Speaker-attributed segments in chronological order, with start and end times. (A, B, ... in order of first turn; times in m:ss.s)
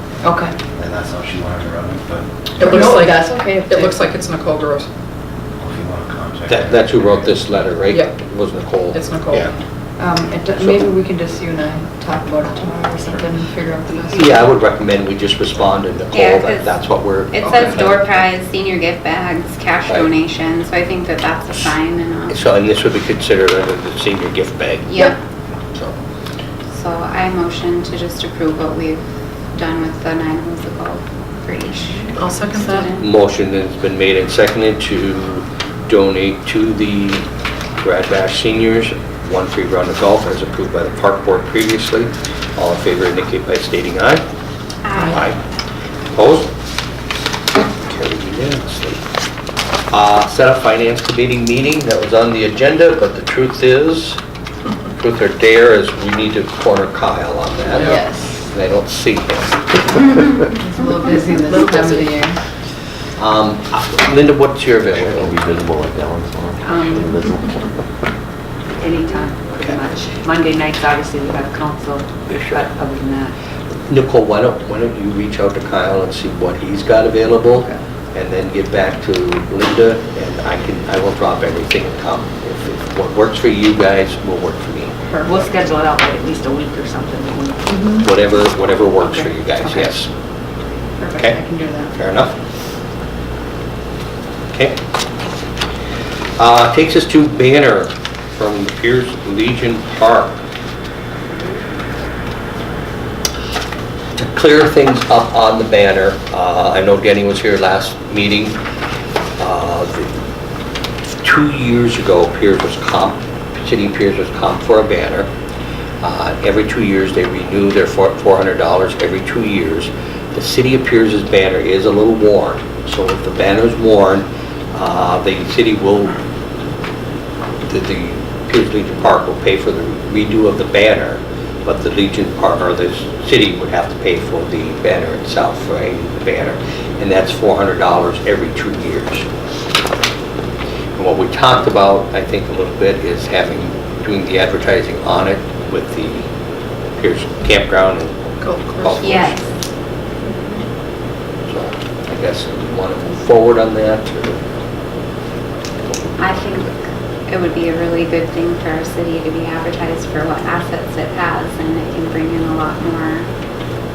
0:00.2-0:00.6 A
0:00.7-0:02.9 B
0:02.6-0:04.9 C
0:02.6-0:04.1 A
0:05.6-0:06.9 B
0:06.5-0:09.5 D
0:07.9-0:08.2 C
0:08.8-0:09.6 C
0:10.0-0:14.5 A
0:10.6-0:10.9 D
0:14.0-0:18.2 D
0:16.1-0:22.4 E
0:22.3-0:25.0 D
0:24.9-0:25.2 E
0:26.7-0:33.1 E
0:32.2-0:32.9 C
0:33.0-0:37.2 D
0:37.8-0:44.2 D
0:44.8-0:45.3 E
0:45.1-0:45.4 D
0:46.1-0:46.5 D
0:47.6-0:49.0 D
0:49.9-0:54.2 D
0:55.0-1:00.0 D
0:57.7-0:58.4 A
1:00.6-1:02.4 A
1:01.5-1:02.0 C
1:03.2-1:05.4 D
1:04.9-1:07.8 F
1:06.6-1:07.1 G
1:08.8-1:13.3 G
1:12.3-1:12.6 D
1:13.9-1:25.0 D
1:25.2-1:25.5 A
1:25.2-1:27.7 G
1:27.7-1:28.1 A
1:28.0-1:30.1 D
1:29.1-1:30.0 A
1:31.0-1:32.0 A
1:31.2-1:32.3 D
1:34.5-1:34.8 D
1:36.4-1:40.4 D
1:44.2-1:48.6 D
1:49.4-1:50.1 D
1:51.2-1:55.3 D
1:56.0-2:06.2 D
2:07.7-2:19.3 D
2:21.0-2:26.3 D
2:27.0-2:29.4 D
2:28.4-2:29.0 C
2:29.0-2:29.5 E
2:31.5-2:34.4 D
2:36.2-2:43.3 E